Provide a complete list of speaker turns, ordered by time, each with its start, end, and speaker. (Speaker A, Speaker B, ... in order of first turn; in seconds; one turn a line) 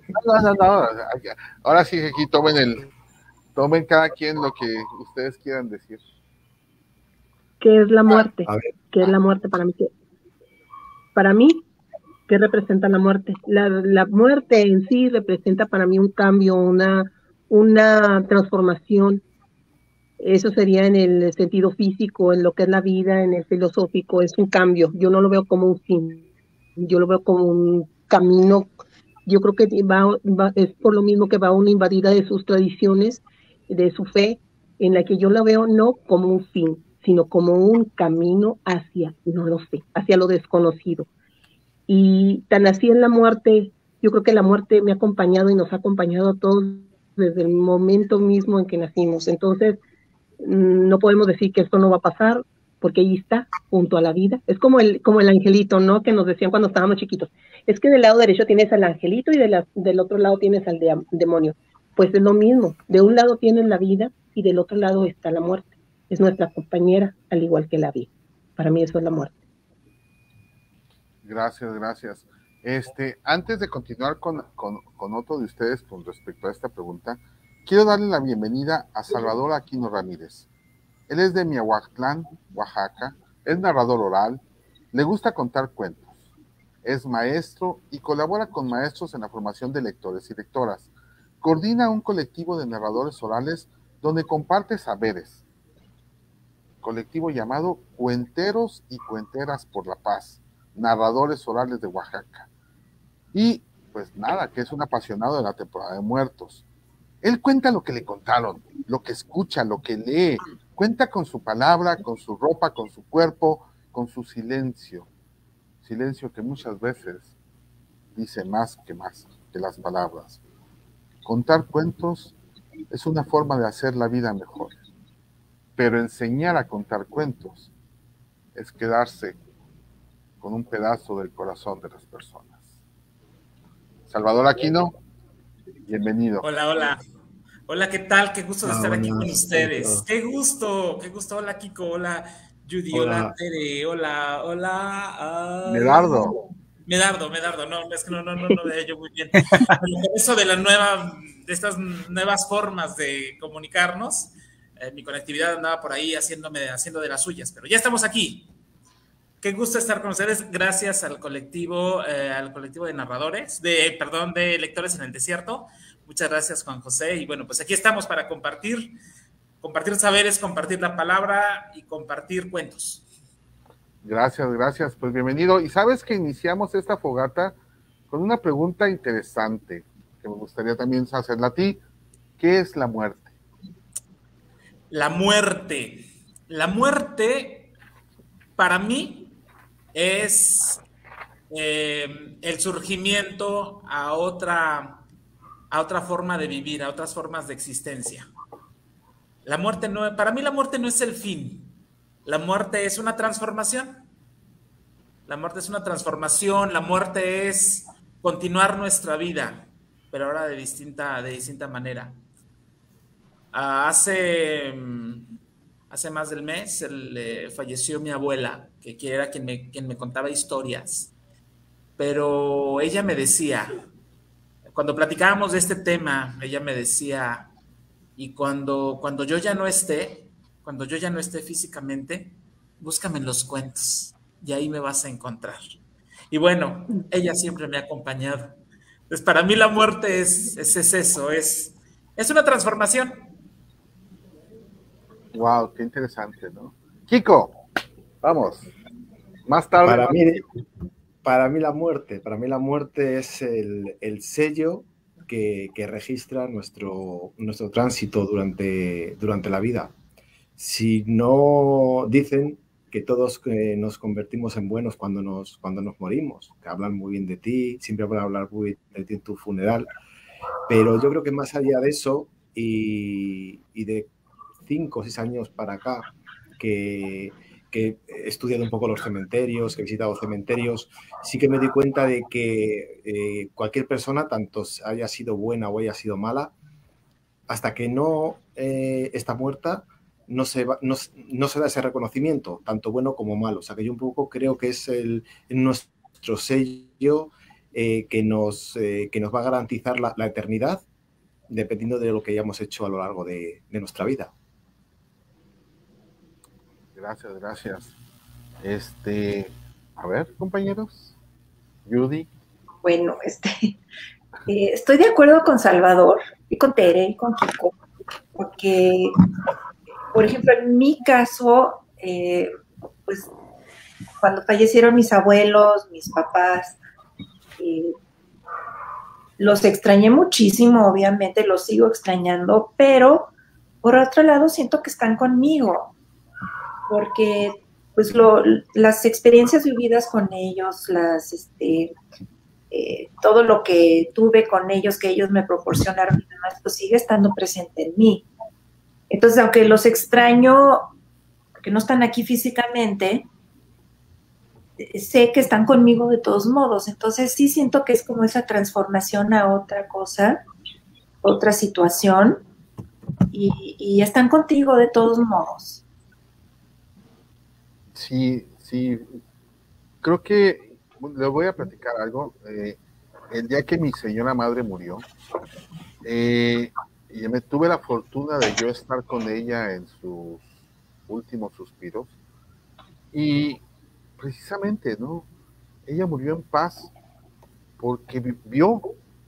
Speaker A: 0.1-2.9
Speaker A: 3.5-6.0
Speaker B: 7.6-9.9
Speaker C: 8.2-9.1
Speaker B: 11.2-11.6
Speaker B: 12.3-19.2
Speaker B: 20.2-26.2
Speaker B: 26.8-28.7
Speaker B: 29.3-41.1
Speaker B: 41.9-49.8
Speaker B: 50.4-69.3
Speaker A: 71.2-80.5
Speaker A: 81.1-84.4
Speaker A: 84.9-86.2
Speaker A: 86.8-90.9
Speaker A: 91.4-95.4
Speaker A: 96.8-102.5
Speaker A: 103.3-106.6
Speaker A: 107.2-115.1
Speaker A: 115.8-117.3
Speaker A: 118.1-120.4
Speaker A: 121.2-122.3
Speaker A: 122.9-124.8
Speaker A: 125.8-127.7
Speaker A: 128.6-129.4
Speaker A: 130.4-132.7
Speaker A: 134.1-134.9
Speaker A: 135.9-136.5
Speaker D: 136.4-137.0
Speaker D: 137.7-158.5
Speaker C: 138.6-140.1
Speaker C: 142.9-143.3
Speaker A: 145.7-146.4
Speaker D: 159.4-168.9
Speaker D: 169.6-173.0
Speaker A: 174.0-177.6
Speaker A: 178.1-181.8
Speaker A: 182.4-183.3
Speaker D: 184.9-187.7
Speaker D: 188.6-189.4
Speaker D: 189.9-190.8
Speaker D: 191.5-195.0
Speaker D: 195.7-198.3
Speaker D: 199.4-204.1
Speaker D: 205.3-212.2
Speaker D: 213.5-215.3
Speaker D: 215.9-221.1
Speaker D: 222.0-223.8
Speaker D: 224.7-227.5
Speaker D: 228.2-235.8
Speaker D: 236.3-238.6
Speaker D: 239.1-243.2
Speaker A: 245.3-247.6
Speaker A: 248.2-248.7
Speaker A: 249.5-250.4
Speaker C: 249.8-250.5
Speaker C: 251.2-259.9
Speaker C: 260.6-269.9
Speaker C: 270.7-274.1
Speaker C: 274.7-286.6
Speaker C: 287.5-300.9
Speaker C: 301.5-304.3
Speaker A: 306.9-307.9
Speaker A: 308.6-311.1
Speaker A: 311.9-312.3
Speaker E: 312.8-313.8
Speaker E: 314.5-317.7
Speaker E: 318.4-319.2
Speaker E: 320.1-322.5
Speaker E: 324.2-326.8
Speaker E: 327.6-327.9
Speaker E: 329.4-333.3
Speaker E: 333.8-335.9
Speaker E: 336.9-341.9
Speaker E: 342.7-348.2
Speaker E: 349.1-350.9
Speaker E: 351.6-353.3
Speaker E: 354.8-360.4
Speaker E: 361.2-362.4
Speaker E: 363.3-365.8
Speaker A: 367.9-369.1
Speaker A: 370.0-372.8
Speaker A: 373.3-375.1
Speaker A: 376.0-380.5
Speaker A: 381.1-382.1
Speaker A: 383.1-383.6
Speaker A: 384.2-385.3
Speaker A: 385.9-386.9
Speaker A: 387.8-388.9